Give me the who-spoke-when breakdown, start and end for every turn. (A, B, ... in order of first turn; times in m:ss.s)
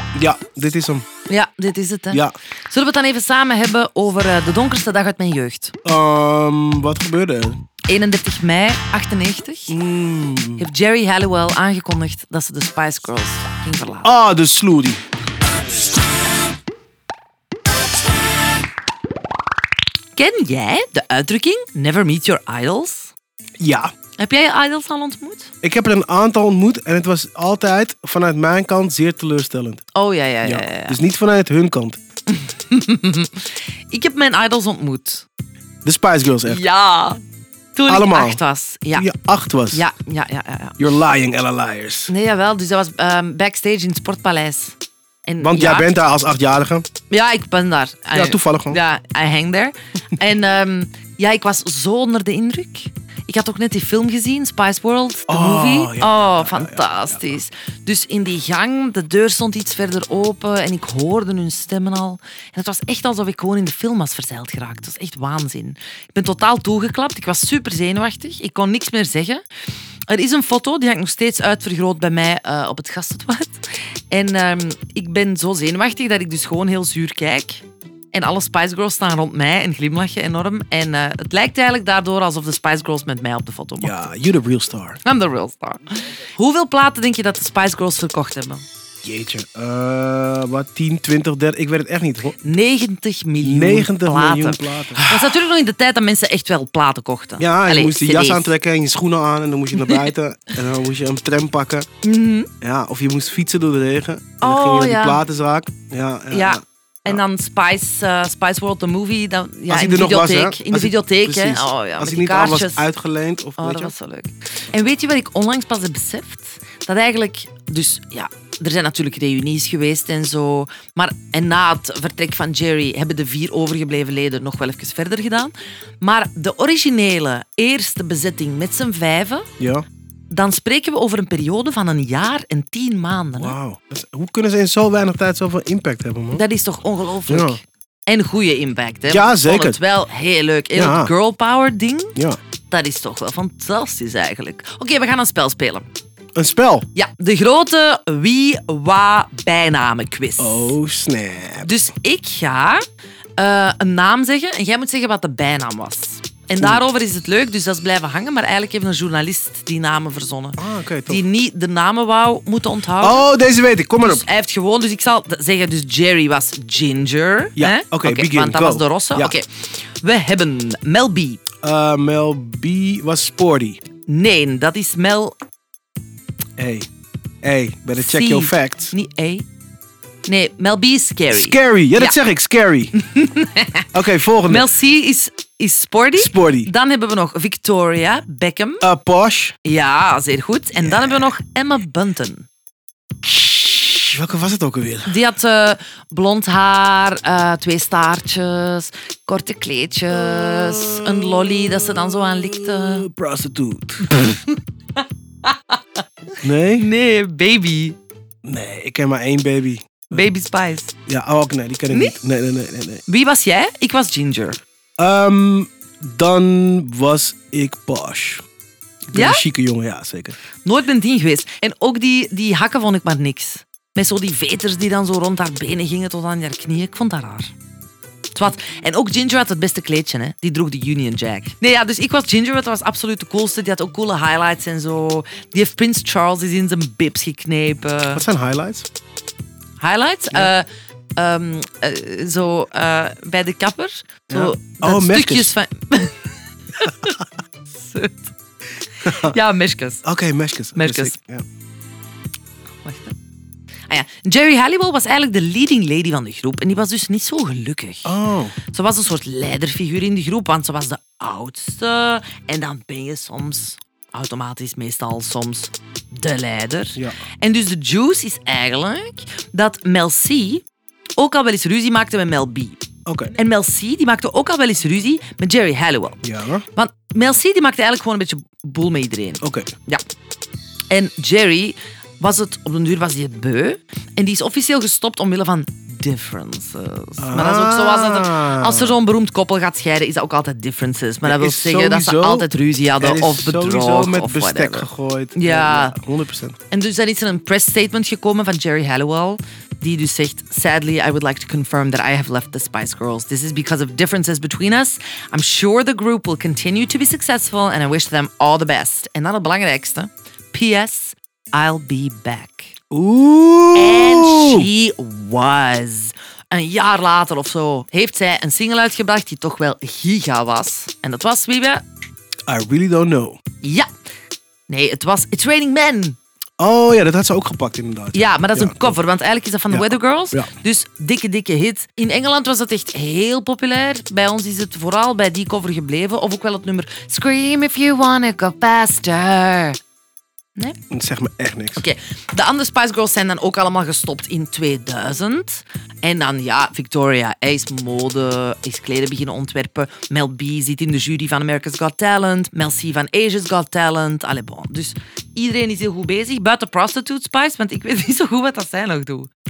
0:00.2-0:01.1 A
0:01.3-0:05.8 B
0:05.8-0:07.6 A
0:07.9-0:09.8 B
0:09.7-0:10.7 A
0:10.6-0:14.1 B
0:14.0-0:15.0 A
0:20.2-0:23.1 B
0:23.6-0:23.9 A
0:24.2-0:25.5 B
0:25.6-0:29.8 A
0:30.0-0:31.0 B
0:30.4-0:32.0 A
0:32.3-0:35.3 B
0:35.8-0:36.6 A
0:36.4-0:37.2 B
0:37.8-0:39.1 B
0:37.9-0:38.4 A
0:39.0-0:39.8 A
0:39.7-0:40.8 B
0:40.8-0:42.1 A
0:42.1-0:45.9 B
0:45.4-0:46.9 A
0:47.1-1:09.4 B
0:48.1-0:48.8 A
0:55.3-0:57.2 A
1:10.1-1:24.0 B
1:23.8-1:25.0 A
1:25.0-1:28.6 B
1:29.0-1:32.4 A
1:32.4-1:38.5 B
1:33.4-1:35.4 A
1:37.4-1:41.9 A
1:39.8-1:40.1 B
1:42.0-1:42.5 B
1:42.6-1:47.2 A
1:44.4-1:45.2 B
1:46.3-1:52.8 B
1:49.7-1:54.0 A
1:53.6-2:09.5 B
2:09.6-2:09.8 A
2:10.3-2:13.6 B
2:13.4-2:16.4 A
2:16.3-2:22.2 B
2:17.3-2:17.6 A
2:19.1-2:19.8 A
2:20.8-2:21.1 A
2:22.7-2:25.9 B
2:26.4-2:26.9 A
2:26.9-2:30.8 B
2:30.4-2:31.7 A
2:31.6-2:32.8 B
2:33.4-2:43.2 B
2:40.6-2:41.2 A
2:43.0-2:44.3 A
2:44.0-2:51.4 B
2:47.6-2:49.4 A
2:51.6-2:53.8 A
2:54.1-2:55.4 B
2:56.6-2:56.9 A
2:57.4-2:58.9 A
2:58.0-2:59.4 B
3:00.3-3:02.2 B
3:01.3-3:03.0 A
3:02.9-3:03.9 B
3:03.9-3:04.7 A
3:04.5-3:08.9 B
3:06.2-3:06.7 A
3:08.8-3:09.5 A
3:09.6-3:12.5 B
3:10.8-3:11.3 A
3:13.2-3:15.2 A
3:15.0-3:23.1 B
3:20.1-3:24.4 A
3:24.1-3:24.6 B
3:25.4-3:25.8 B
3:26.4-3:26.9 A
3:26.7-3:28.0 B
3:28.4-3:30.2 A
3:30.1-3:30.9 B
3:31.1-3:33.0 A
3:31.9-3:32.2 B
3:33.1-3:34.6 B
3:35.0-3:38.4 A
3:39.1-3:40.4 A
3:39.1-3:39.4 B
3:40.6-3:47.5 B
3:48.4-3:58.2 B
3:58.1-3:58.9 A
3:59.8-4:07.2 B
4:04.3-4:05.5 A
4:07.7-4:08.3 B
4:09.0-4:10.0 B
4:09.0-4:09.4 A
4:10.0-4:11.4 A
4:10.8-4:11.2 B
4:12.8-4:13.2 B
4:13.9-4:18.2 B
4:18.0-4:18.6 A
4:18.7-4:30.6 B
4:31.2-4:32.8 B
4:33.1-4:33.4 A
4:33.3-4:36.2 B
4:36.2-4:36.6 A
4:36.8-4:40.0 B
4:39.4-4:39.7 A
4:40.9-4:56.0 B
4:47.2-4:49.0 A
4:51.2-4:52.5 A
4:53.0-4:56.6 A
4:56.7-5:12.7 B
5:12.9-5:14.7 A
5:13.7-5:21.8 B
5:22.5-5:23.4 A
5:23.6-5:23.9 B
5:24.7-5:26.2 B
5:26.6-5:29.0 A
5:28.1-5:39.8 B
5:29.7-5:30.5 A
5:40.9-5:41.8 A
5:41.8-5:59.3 B